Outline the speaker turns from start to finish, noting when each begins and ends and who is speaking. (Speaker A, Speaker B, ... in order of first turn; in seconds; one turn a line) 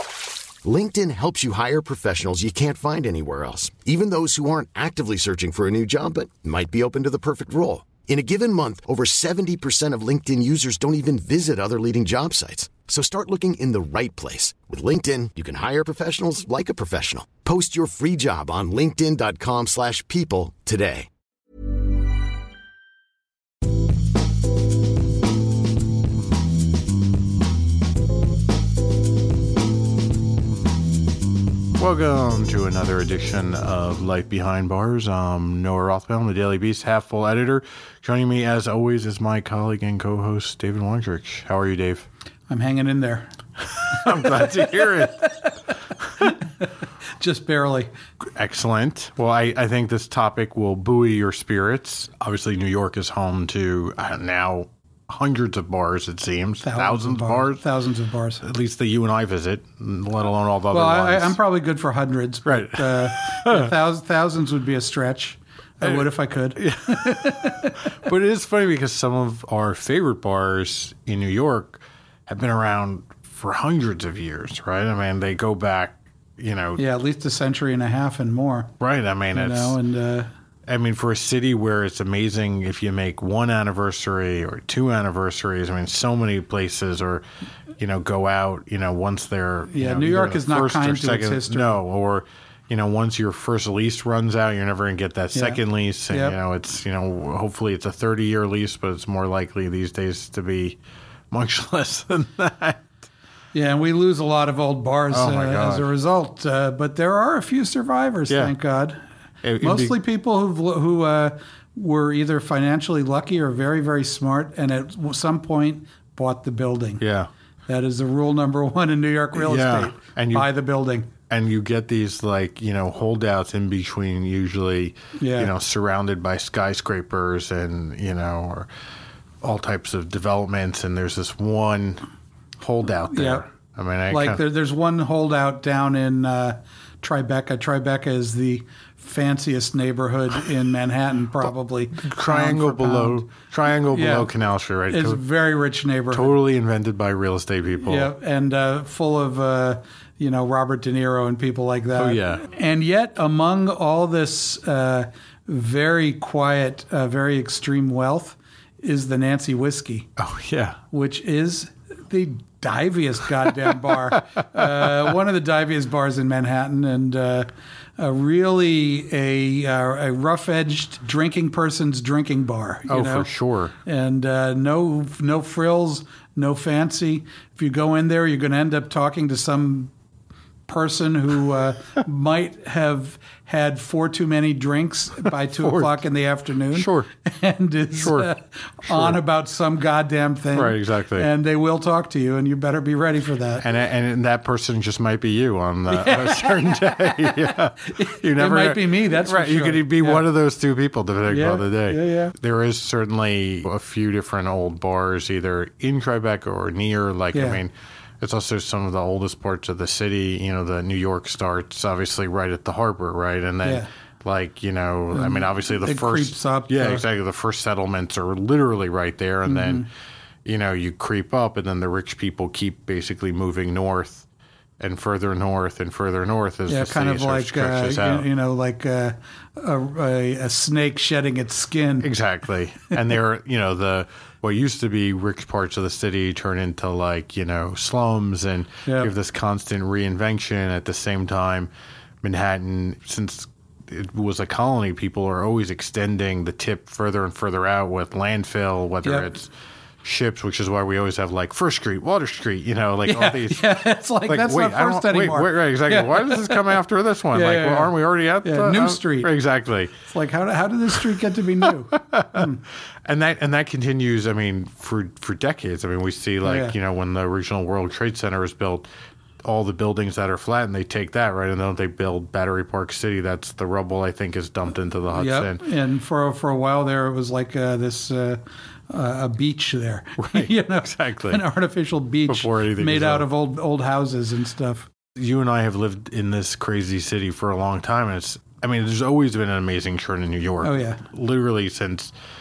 Speaker A: 0.6-21.1
Speaker B: 31.8-42.1
Speaker C: 42.5-43.3
Speaker B: 43.7-45.3
Speaker C: 43.9-45.5
Speaker C: 46.2-46.7
Speaker C: 47.2-47.9
Speaker B: 48.2-57.6
Speaker C: 56.6-58.4
Speaker B: 58.4-61.4
Speaker C: 60.7-67.9
Speaker B: 62.5-63.8
Speaker B: 65.8-76.8
Speaker C: 76.8-78.7
Speaker B: 78.8-79.8
Speaker C: 79.3-80.3
Speaker B: 80.7-87.2
Speaker B: 87.8-100.8
Speaker C: 89.7-91.8
Speaker C: 95.3-96.4
Speaker B: 101.3-102.9
Speaker C: 103.5-109.0
Speaker B: 105.1-105.9
Speaker B: 108.3-108.5
Speaker B: 109.4-110.0
Speaker C: 109.6-117.0
Speaker B: 117.0-117.3
Speaker C: 117.7-121.1
Speaker B: 119.3-120.5
Speaker B: 121.3-128.7
Speaker C: 125.2-125.5
Speaker B: 129.4-132.0
Speaker B: 132.6-134.4
Speaker C: 133.1-133.5
Speaker C: 134.1-143.3
Speaker B: 141.4-145.2
Speaker C: 143.9-144.3
Speaker C: 144.9-146.4
Speaker B: 146.1-148.1
Speaker C: 147.8-160.1
Speaker B: 152.0-152.4
Speaker B: 160.2-160.8
Speaker C: 160.9-173.3
Speaker B: 164.5-164.9
Speaker B: 172.9-173.7
Speaker C: 173.8-179.9
Speaker C: 180.7-193.7
Speaker B: 185.5-186.0
Speaker B: 186.7-187.1
Speaker B: 188.0-188.3
Speaker B: 188.9-189.2
Speaker B: 190.5-191.3
Speaker B: 193.6-219.9
Speaker C: 195.9-200.2
Speaker C: 201.3-202.3
Speaker C: 207.3-207.6
Speaker C: 213.6-213.9
Speaker C: 215.1-217.0
Speaker C: 219.5-219.9
Speaker B: 220.4-224.2
Speaker B: 224.8-228.3
Speaker C: 226.7-232.1
Speaker B: 232.0-241.7
Speaker C: 238.8-239.1
Speaker B: 242.2-249.5
Speaker C: 249.0-249.3
Speaker B: 250.0-259.9
Speaker C: 253.0-256.8
Speaker C: 257.3-259.4
Speaker C: 260.0-262.6
Speaker B: 261.6-262.5
Speaker B: 263.0-268.9
Speaker C: 266.4-266.7
Speaker B: 269.4-275.6
Speaker C: 275.1-284.9
Speaker B: 280.2-281.4
Speaker B: 282.3-283.3
Speaker B: 285.1-292.1
Speaker C: 290.6-291.0